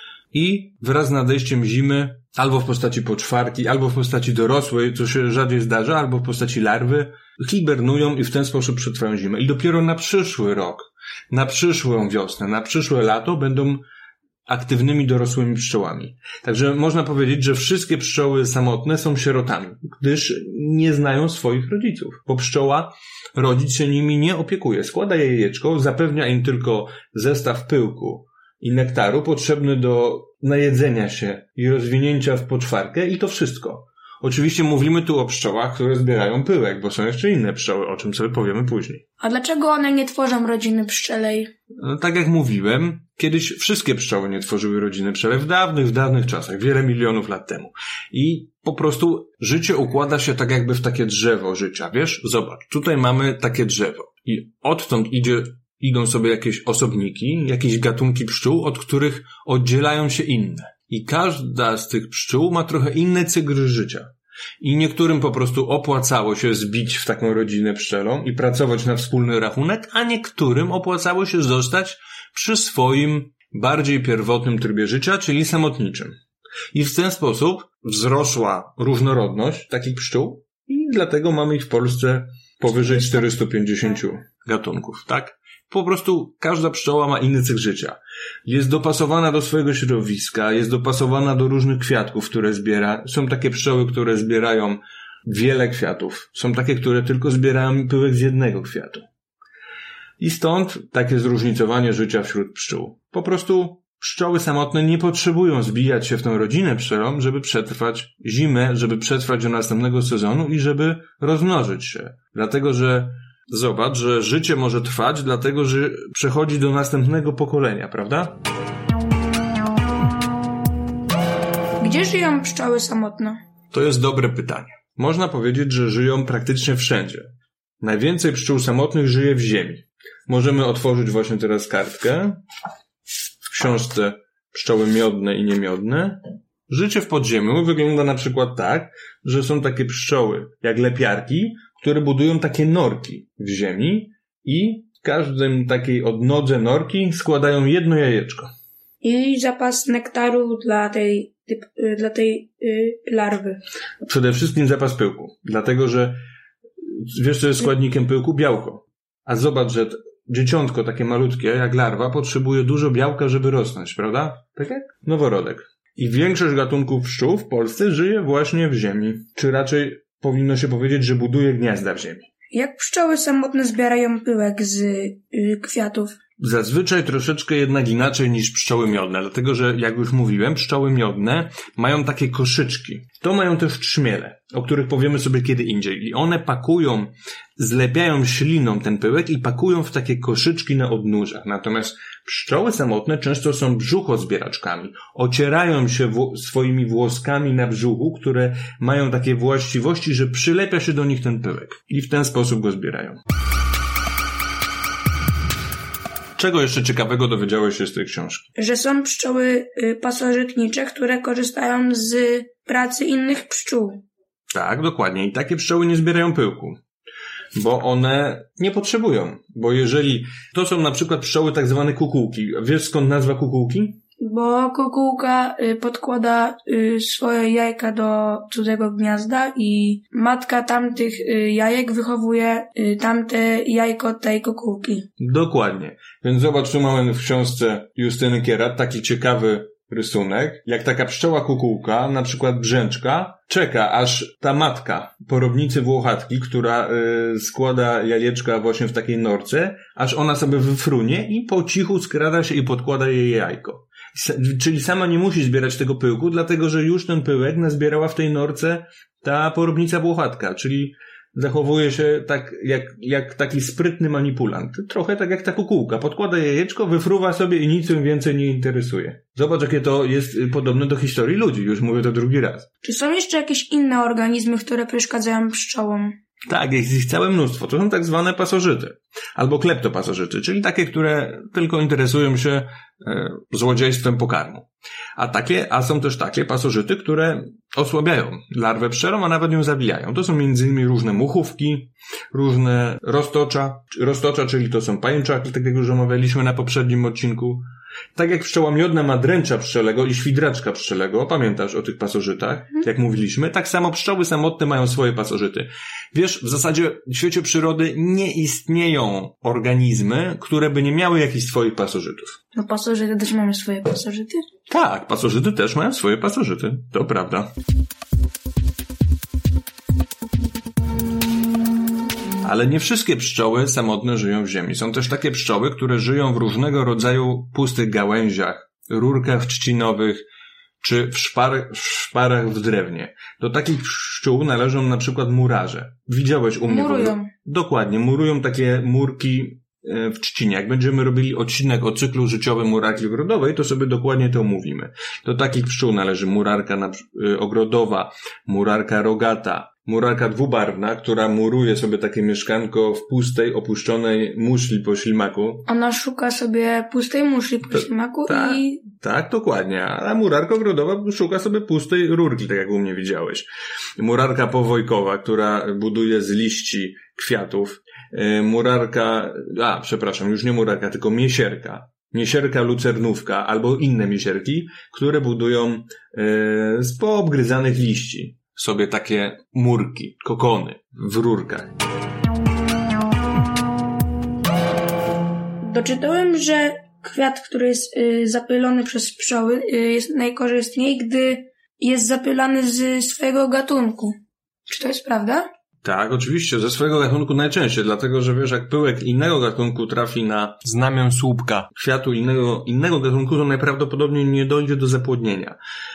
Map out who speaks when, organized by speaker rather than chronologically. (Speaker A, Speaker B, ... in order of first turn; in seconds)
Speaker A: 0.3-13.8, 14.5-39.0, 41.8-64.1, 64.6-76.1, 76.7-99.0, 100.2-118.4, 123.7-127.3, 127.8-132.4, 133.4-148.5, 154.0-156.2, 156.9-172.3, 176.4-203.2, 206.4-208.5, 214.5-216.8, 217.5-224.0, 235.2-272.7, 276.5-312.4, 314.7-317.5, 322.4-330.2, 330.8-355.7, 358.3-363.5, 364.0-381.7, 395.8-405.6
Speaker B: 39.2-41.5, 121.8-123.4, 149.0-153.6, 172.5-176.1, 208.6-214.0, 224.2-235.1, 272.8-276.1, 312.5-314.4, 336.7-337.3, 355.6-358.8, 385.6-394.1, 394.7-395.4